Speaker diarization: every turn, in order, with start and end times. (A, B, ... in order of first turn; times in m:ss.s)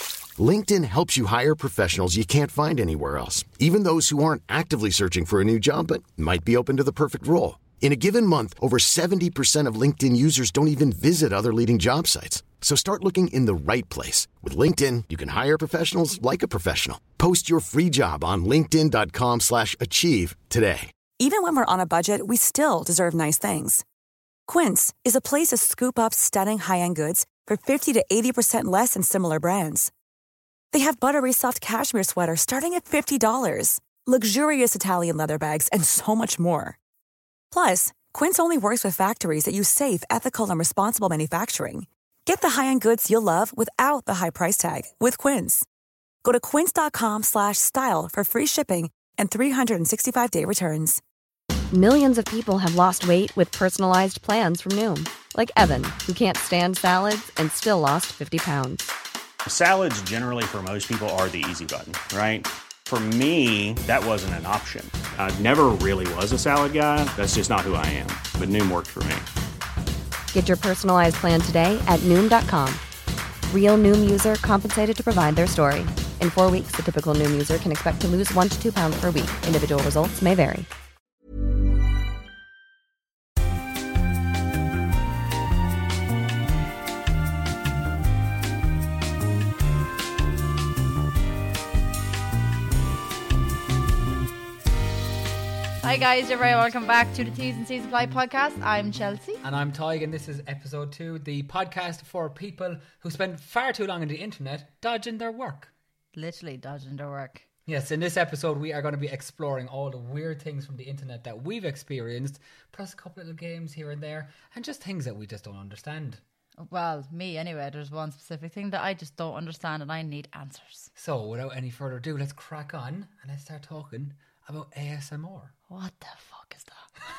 0:00.4-0:20.9 A
0:21.2-0:23.8 B
0:24.5-0:29.9 B
0:30.7-0:36.8 B
0:37.5-0:45.7 B
0:46.2-0:51.0 B
0:51.7-0:58.9 C
0:59.5-1:09.3 D
1:10.3-1:12.8 C
1:13.5-1:20.7 C
1:35.8-1:39.4 E
1:39.4-1:45.7 F
1:46.2-1:47.5 E
1:47.7-1:56.2 F
1:56.6-2:00.9 E
2:01.0-2:05.5 F
2:05.7-2:06.9 E